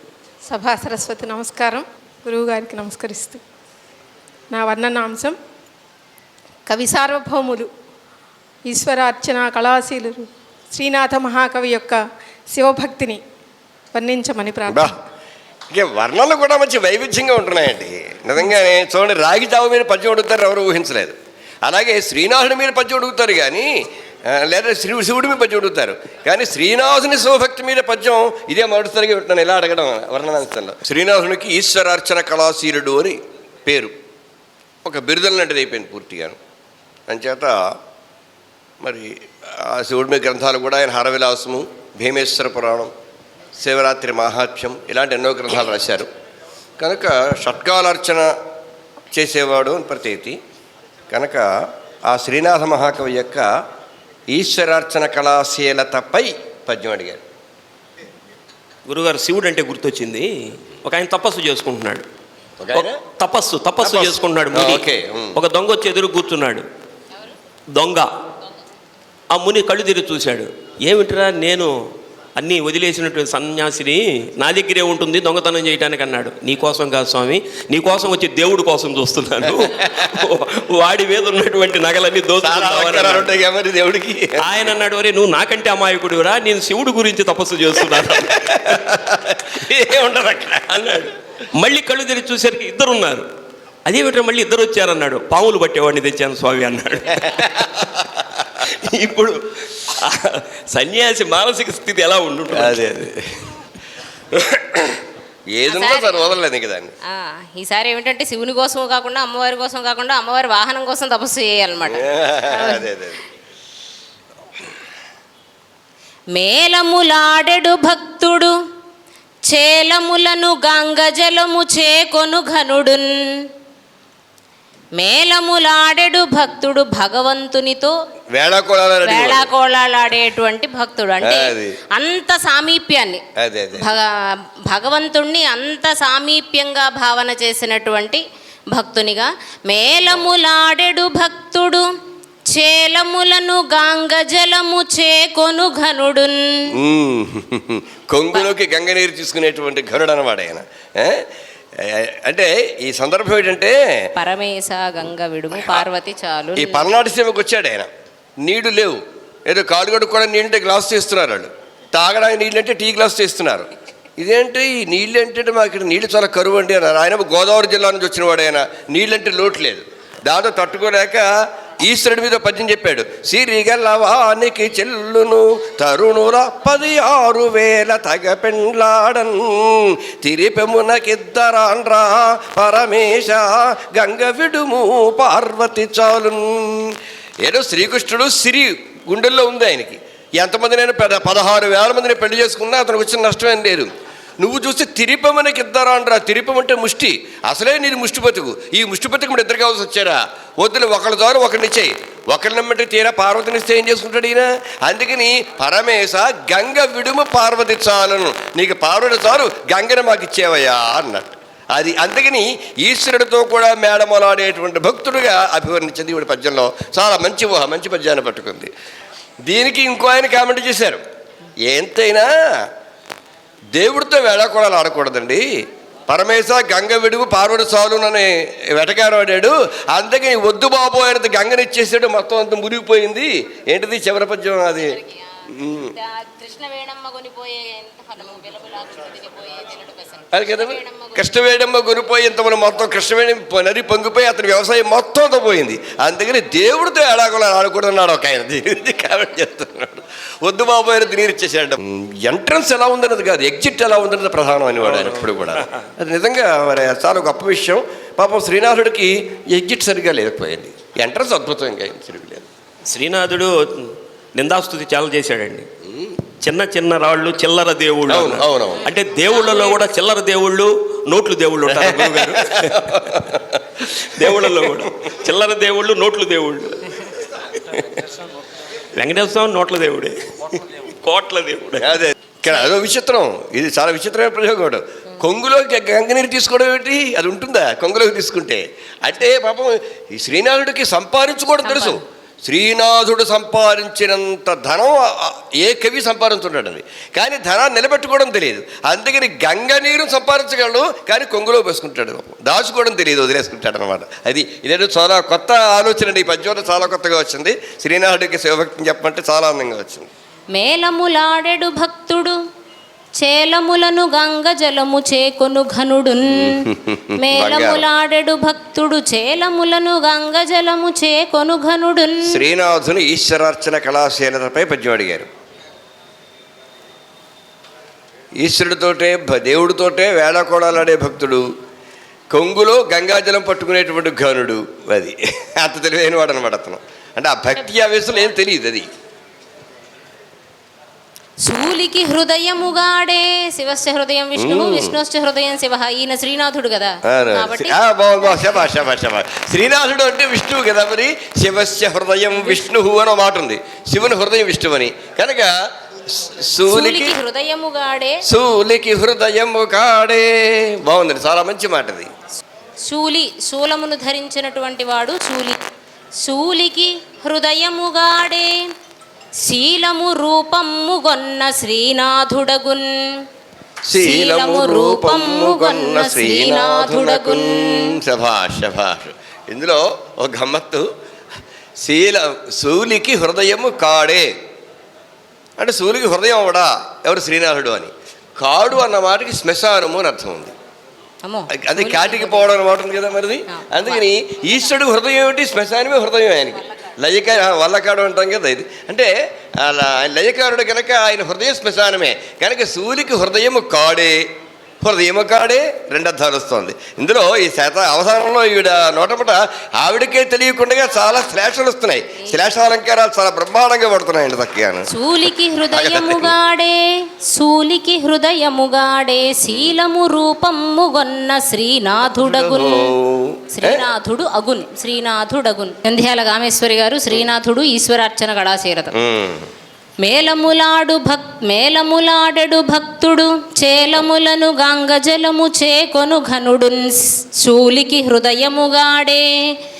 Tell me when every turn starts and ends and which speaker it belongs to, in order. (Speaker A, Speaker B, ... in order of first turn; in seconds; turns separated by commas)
Speaker A: 0.5-3.4, Speaker A: 4.5-5.3, Speaker A: 6.7-7.7, Speaker A: 8.6-12.0, Speaker A: 12.5-13.2, Speaker A: 13.9-14.9, Speaker B: 15.7-23.7, Speaker B: 24.3-33.9, Speaker B: 34.8-36.4, Speaker B: 37.1-37.7, Speaker B: 38.8-42.9, Speaker B: 43.6-46.1, Speaker B: 46.8-48.3, Speaker B: 49.1-50.4, Speaker B: 51.1-51.5, Speaker B: 52.1-53.5, Speaker B: 54.3-57.2, Speaker C: 58.9-62.0, Speaker B: 62.6-63.0, Speaker C: 62.7-66.7, Speaker B: 63.8-65.4, Speaker C: 67.7-68.1, Speaker C: 69.3-71.7, Speaker C: 72.3-83.3, Speaker B: 82.4-84.4, Speaker C: 84.4-88.8, Speaker B: 87.9-91.1, Speaker C: 91.5-93.2, Speaker C: 93.8-102.8, Speaker B: 97.4-97.7, Speaker B: 102.5-103.5, Speaker B: 105.5-106.9, Speaker D: 105.7-106.3, Speaker D: 107.1-112.9, Speaker B: 111.8-113.2, Speaker D: 116.3-118.5, Speaker D: 119.5-123.4, Speaker D: 125.0-127.9, Speaker B: 128.3-129.5, Speaker D: 129.0-133.2, Speaker B: 131.2-131.8, Speaker B: 133.4-133.9, Speaker D: 133.8-134.1, Speaker D: 134.7-141.8, Speaker D: 142.5-146.6, Speaker B: 146.7-151.2, Speaker B: 151.8-153.8, Speaker D: 154.2-156.9, Speaker B: 156.6-157.9, Speaker B: 158.4-171.3, Speaker B: 171.8-218.7, Speaker B: 219.4-221.0, Speaker B: 221.7-222.3, Speaker B: 223.7-225.4, Speaker B: 226.1-235.0, Speaker B: 235.5-235.9, Speaker D: 235.7-241.4, Speaker B: 240.3-262.4, Speaker C: 254.8-255.8, Speaker C: 262.9-265.7, Speaker C: 266.4-273.2, Speaker B: 268.1-268.8, Speaker D: 269.4-269.7, Speaker B: 271.7-274.8, Speaker C: 273.9-277.0, Speaker B: 277.6-278.0, Speaker C: 278.9-282.0, Speaker B: 281.8-310.1, Speaker D: 291.6-292.0, Speaker D: 310.5-312.4, Speaker D: 313.2-322.4, Speaker B: 316.4-317.8, Speaker B: 322.2-325.3, Speaker B: 328.4-331.4, Speaker B: 332.3-338.9, Speaker D: 341.4-348.7, Speaker B: 344.4-344.9, Speaker B: 347.1-355.5, Speaker B: 356.1-357.2, Speaker D: 356.6-358.2, Speaker B: 358.2-362.1, Speaker D: 362.8-365.6, Speaker D: 366.2-368.5, Speaker D: 369.4-372.9, Speaker B: 373.9-380.9, Speaker D: 373.9-378.0, Speaker B: 381.8-384.3, Speaker B: 385.6-390.5, Speaker D: 391.2-392.5, Speaker B: 391.5-404.2, Speaker D: 393.5-394.0, Speaker B: 404.8-414.9, Speaker D: 414.9-416.8, Speaker B: 415.7-416.3, Speaker D: 417.3-422.9, Speaker B: 422.1-423.8, Speaker D: 423.5-428.9, Speaker B: 428.9-429.5, Speaker D: 430.0-439.5